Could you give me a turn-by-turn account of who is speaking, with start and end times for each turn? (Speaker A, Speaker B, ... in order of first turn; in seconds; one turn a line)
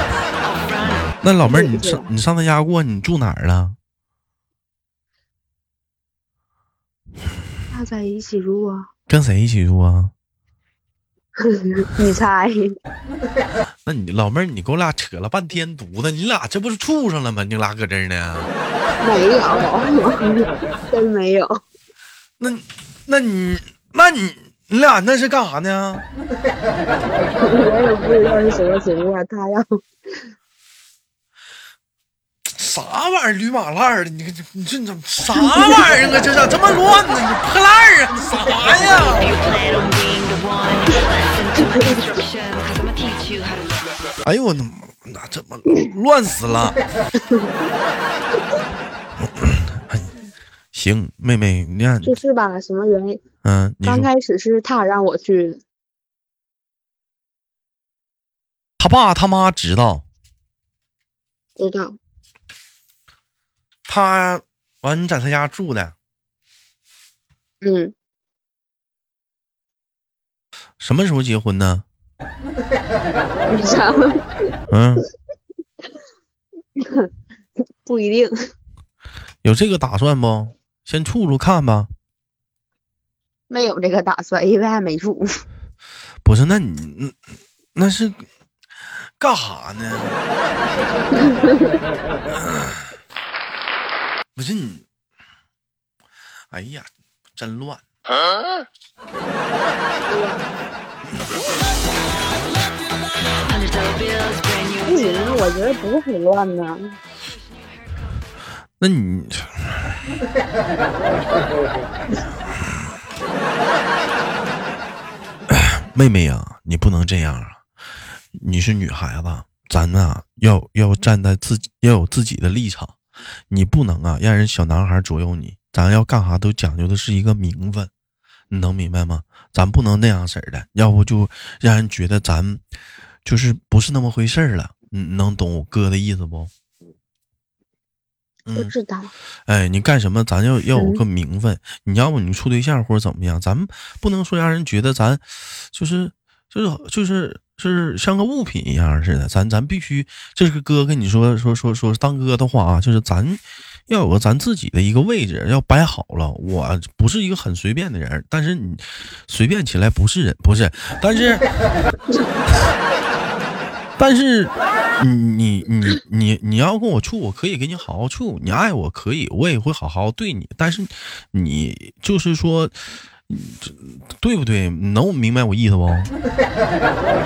Speaker A: 0.4-1.1
Speaker B: 1.2-3.8
Speaker C: 1.5-2.1
Speaker C: 7.7-8.9
Speaker B: 9.1-10.1
Speaker C: 11.4-12.8
Speaker B: 13.8-18.5
Speaker C: 19.0-21.6
Speaker B: 22.4-26.1
Speaker C: 27.4-29.8
Speaker B: 32.5-39.3
Speaker A: 39.0-43.9
Speaker B: 44.2-46.8
Speaker C: 47.2-47.5
Speaker B: 49.2-50.1
Speaker B: 50.7-52.2
Speaker C: 52.0-53.2
Speaker B: 53.4-54.1
Speaker C: 53.8-55.6
Speaker B: 58.8-60.0
Speaker C: 61.6-62.0
Speaker B: 63.9-66.0
Speaker C: 67.6-67.9
Speaker B: 70.8-71.8
Speaker C: 73.5-74.2
Speaker B: 74.7-75.0
Speaker C: 76.8-77.1
Speaker C: 77.8-78.3
Speaker B: 79.4-81.9
Speaker C: 83.5-85.4
Speaker B: 86.2-87.2
Speaker B: 87.8-88.2
Speaker B: 89.2-90.2
Speaker B: 92.4-92.8
Speaker B: 94.4-94.8
Speaker B: 96.5-97.8
Speaker C: 100.0-100.4
Speaker A: 103.4-105.4
Speaker C: 104.8-107.0
Speaker B: 108.8-109.9
Speaker B: 115.5-117.6
Speaker B: 118.3-123.0
Speaker B: 123.5-127.9
Speaker B: 128.5-132.6
Speaker B: 133.2-136.5
Speaker B: 138.5-138.7
Speaker C: 138.5-139.1
Speaker B: 139.5-161.5
Speaker C: 140.7-141.0
Speaker B: 164.0-172.7
Speaker B: 173.3-176.1